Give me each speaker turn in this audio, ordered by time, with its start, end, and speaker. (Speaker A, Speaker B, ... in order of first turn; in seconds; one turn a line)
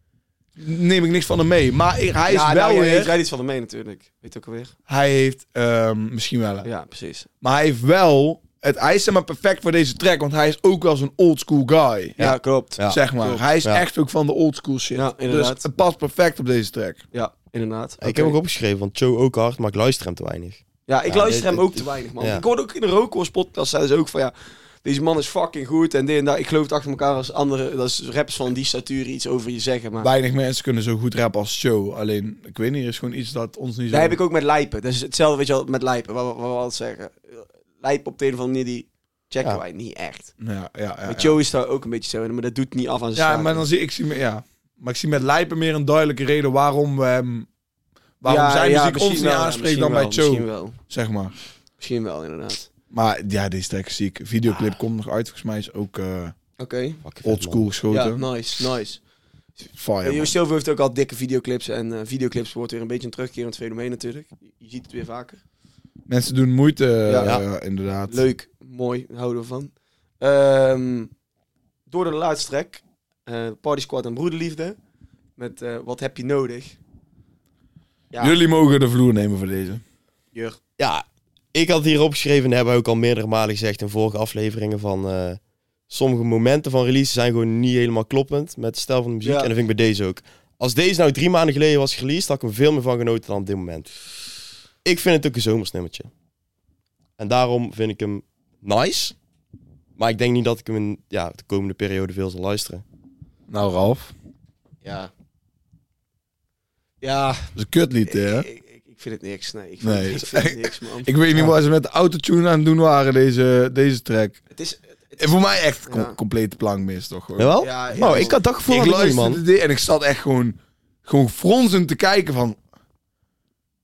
Speaker A: 0.6-3.1
Speaker B: 2.3-4.7
Speaker A: 4.9-6.7
Speaker B: 6.6-7.3
Speaker A: 7.4-12.3
Speaker C: 12.2-13.0
Speaker B: 12.2-13.4
Speaker A: 12.8-17.0
Speaker B: 14.9-15.6
Speaker B: 17.1-18.4
Speaker C: 18.0-22.4
Speaker B: 20.9-30.1
Speaker A: 30.0-34.2
Speaker B: 33.9-40.3
Speaker A: 40.4-41.4
Speaker B: 41.1-43.6
Speaker A: 43.1-47.5
Speaker A: 48.2-51.3
Speaker B: 48.2-50.8
Speaker B: 51.8-52.7
Speaker A: 52.9-56.4
Speaker B: 56.6-57.0
Speaker C: 57.0-57.6
Speaker A: 57.2-58.2
Speaker B: 57.9-59.0
Speaker A: 59.8-60.3
Speaker B: 60.0-65.4
Speaker A: 66.1-68.2
Speaker B: 67.0-67.4
Speaker B: 68.1-71.1
Speaker B: 71.9-74.8
Speaker B: 75.4-76.8
Speaker A: 78.2-79.8
Speaker C: 80.8-93.9
Speaker B: 89.2-89.5
Speaker C: 94.8-96.1
Speaker C: 97.2-99.1
Speaker C: 100.0-102.8
Speaker A: 103.5-104.1
Speaker B: 104.8-105.1
Speaker B: 107.0-107.5
Speaker A: 107.5-108.5
Speaker B: 108.1-111.2
Speaker A: 109.8-114.4
Speaker B: 114.5-116.2
Speaker A: 115.2-122.6
Speaker C: 117.4-119.4
Speaker B: 117.6-118.4